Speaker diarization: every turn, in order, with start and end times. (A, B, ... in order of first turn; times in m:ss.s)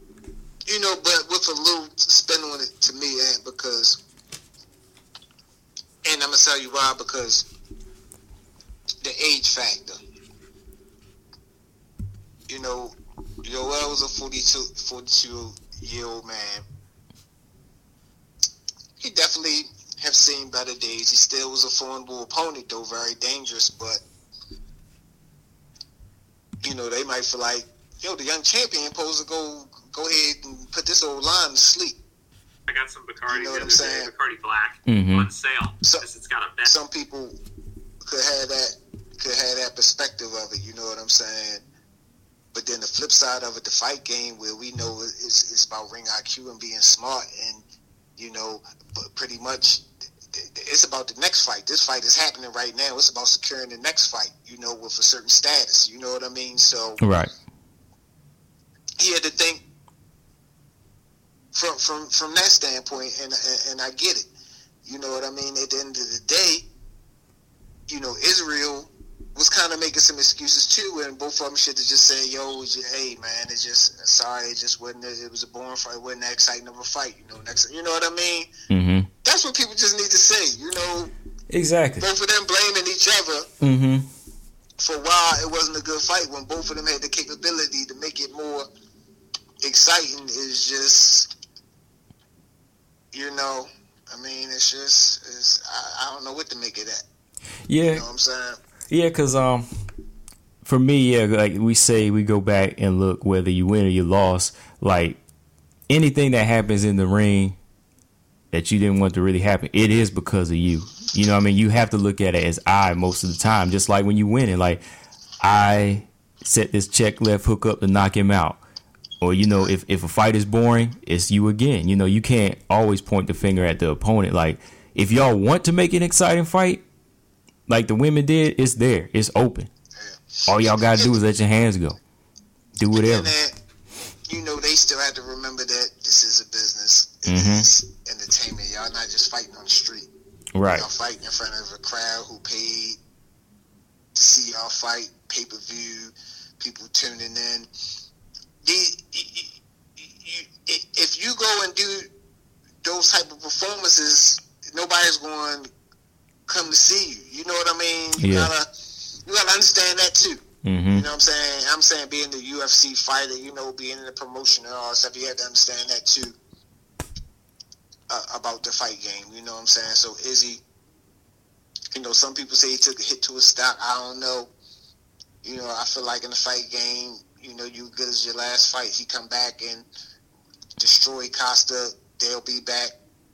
0:00.7-0:04.0 A
0:06.0-0:07.5 A
0:09.0-0:10.0 A
0:12.5-0:16.6 A
0:19.0-0:24.0 A
0:26.6-0:32.0 A
0:32.7-0:36.7 B
0:33.3-0:34.1 A
0:34.8-0:35.3 C
0:36.6-0:37.4 A
0:38.0-0:41.6 A
0:42.5-0:47.6 A
0:48.2-0:57.0 A
0:57.0-0:57.3 C
0:59.0-0:59.6 A
1:01.5-1:04.3 A
1:04.8-1:06.7 A
1:07.9-1:18.5 A
1:18.7-1:19.1 C
1:19.2-1:21.1 A
1:21.5-1:22.0 C
1:22.0-1:23.5 A
1:23.6-1:24.1 C
1:24.8-1:28.6 A
1:29.6-1:31.3 A
1:33.1-1:37.0 A
1:37.7-1:38.0 C
1:37.9-1:38.6 A
1:38.9-1:39.6 C
1:40.6-1:45.2 C
1:45.9-1:47.6 C
1:48.5-1:54.8 C
1:55.4-1:58.6 C
1:59.2-2:06.8 C
2:07.7-2:09.7 C
2:10.0-2:11.2 A
2:10.5-2:12.0 C
2:12.8-2:13.3 C
2:12.9-2:13.5 A
2:14.3-2:20.1 A
2:17.2-2:17.7 C
2:20.5-2:20.8 C
2:20.7-2:23.0 A
2:24.1-2:27.7 A
2:28.6-2:32.1 A
2:32.8-2:35.7 A
2:36.5-2:46.3 A
2:38.2-2:38.5 C
2:40.6-2:41.0 C
2:48.1-2:50.6 A
2:51.9-2:54.5 A
2:55.4-2:59.8 A
3:00.8-3:02.9 A